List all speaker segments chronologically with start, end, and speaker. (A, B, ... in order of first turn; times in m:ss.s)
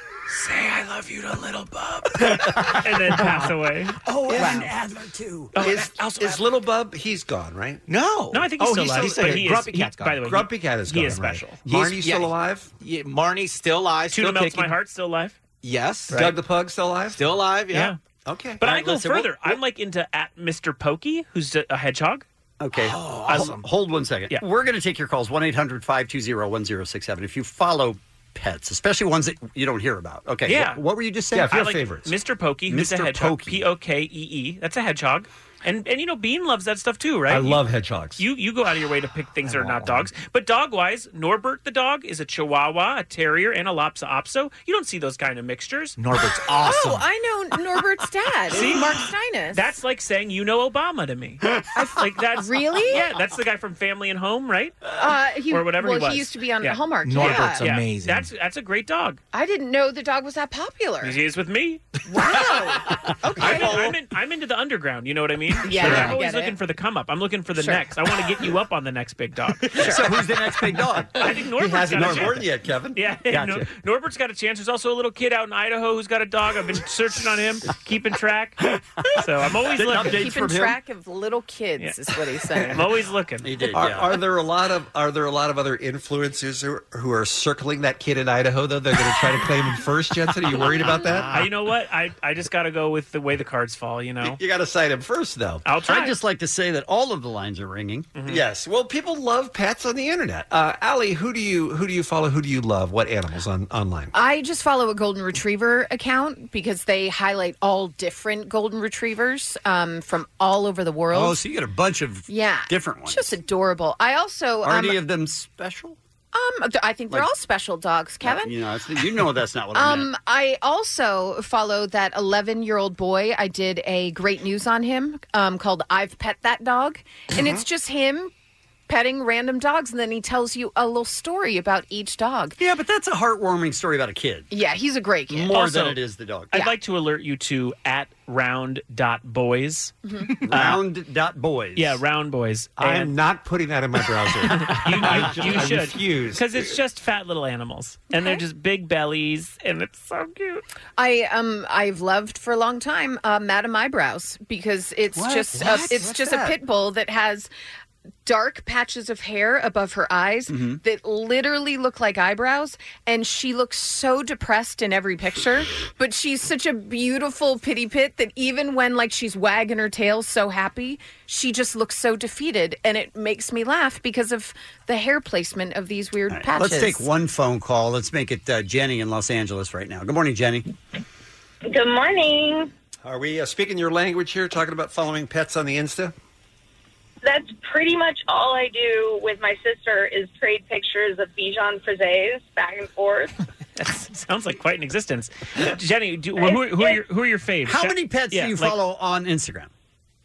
0:00.3-0:02.2 A
0:02.6-0:04.0 B
0:04.1-0:05.6 C
0:05.5-0:06.1 B
0:05.6-0:07.8 D
0:07.9-0:10.3 A
0:08.3-0:11.6 B
0:08.6-0:09.6 D
0:10.2-0:12.7 D
0:11.7-0:14.7 A
0:14.1-0:15.4 B
0:15.6-0:16.2 A
0:16.1-0:17.4 D
0:17.1-0:17.9 A
0:17.7-0:18.0 B
0:18.2-0:18.6 D
0:18.6-0:22.2 B
0:18.6-0:19.6 C
0:22.6-0:31.5 C
0:22.8-0:23.6 A
0:30.5-0:30.8 B
0:31.3-0:32.1 D
0:31.5-0:37.6 B
0:32.7-0:33.6 C
0:37.3-0:38.2 D
0:38.2-0:46.0 B
0:39.5-0:40.1 D
0:46.0-0:47.0 A
0:46.6-0:49.6 E
0:48.5-0:55.0 B
0:51.8-0:53.0 E
0:55.0-0:57.7 E
0:55.5-0:59.2 B
0:57.1-0:58.3 A
0:59.3-1:01.2 E
1:01.0-1:01.8 B
1:02.1-1:03.9 E
1:03.4-1:10.1 B
1:05.6-1:06.6 E
1:07.6-1:07.8 E
1:09.8-1:11.2 C
1:11.2-1:18.6 B
1:11.4-1:13.0 D
1:12.0-1:12.3 C
1:13.3-1:13.7 C
1:19.2-1:20.3 B
1:19.7-1:20.8 C
1:20.0-1:22.8 E
1:22.6-1:23.5 B
1:23.4-1:24.2 C
1:23.7-1:31.5 D
1:31.3-1:34.4 B
1:34.2-1:35.6 D
1:35.6-1:36.2 B
1:35.9-1:38.5 C
1:38.2-1:38.4 B
1:38.5-1:44.1 D
1:44.1-1:51.4 E
1:51.1-1:53.4 C
1:52.3-1:55.0 E
1:54.6-1:56.0 C
1:56.3-1:58.6 E
1:58.2-2:00.1 C
1:59.7-2:08.3 E
2:08.9-2:12.6 E
2:12.6-2:14.5 C
2:14.5-2:15.5 E
2:15.3-2:16.6 C
2:15.5-2:16.0 B
2:16.5-2:20.0 B
2:20.1-2:20.3 E
2:20.4-2:22.0 C
2:20.5-2:20.8 B
2:21.8-2:23.1 B
2:22.8-2:26.7 D
2:24.6-2:30.6 B
2:31.0-2:37.5 E
2:35.2-2:36.6 D
2:38.2-2:57.0 E
2:40.5-2:40.8 C
2:56.3-3:00.7 C
3:01.7-3:02.7 F
3:03.0-3:06.1 D
3:07.2-3:13.3 F
3:13.8-3:18.8 B
3:17.6-3:19.7 C